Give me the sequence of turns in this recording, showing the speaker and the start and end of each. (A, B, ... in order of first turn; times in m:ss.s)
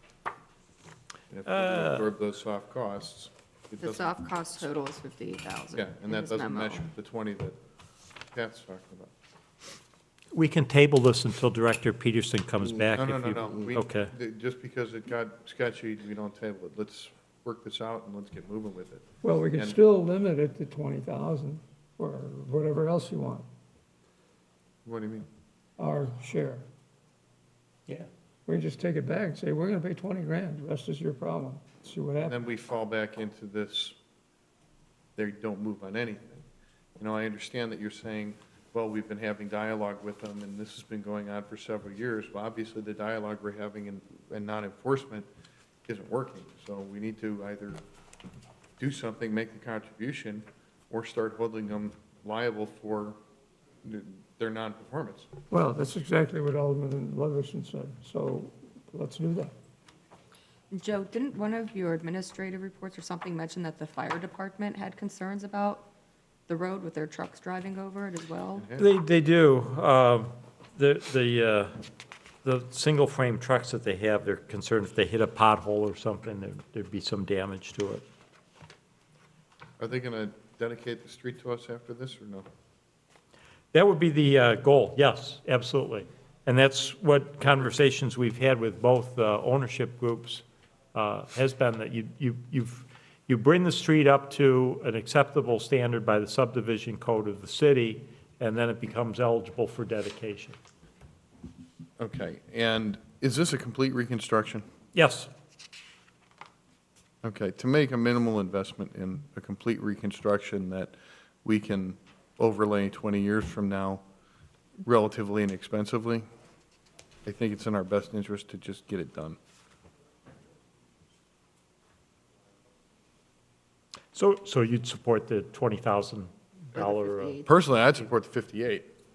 0:01.3-0:04.7 A
0:01.5-0:02.1 B
0:03.8-0:06.9 C
0:05.7-0:07.6 A
0:08.3-0:09.1 A
0:10.3-0:14.1 B
0:13.0-0:19.8 A
0:19.2-0:23.5 D
0:24.8-0:25.3 A
0:25.8-0:26.7 D
0:28.5-0:32.4 D
0:32.2-0:34.0 A
0:35.2-0:36.4 A
0:37.0-0:45.3 A
0:45.9-0:47.8 A
0:48.8-0:53.2 A
0:53.8-0:55.3 A
0:55.5-0:59.5 D
1:00.7-1:05.9 C
1:06.5-1:08.7 C
1:08.6-1:08.9 A
1:08.8-1:11.8 B
1:12.4-1:18.0 B
1:19.8-1:22.5 A
1:23.7-1:40.6 B
1:42.0-1:44.6 A
1:44.9-1:45.3 B
1:47.2-1:54.0 A
1:54.8-1:56.2 A
1:57.3-1:59.4 A
2:04.2-2:07.4 B
2:06.8-2:07.5 C
2:07.4-2:08.9 A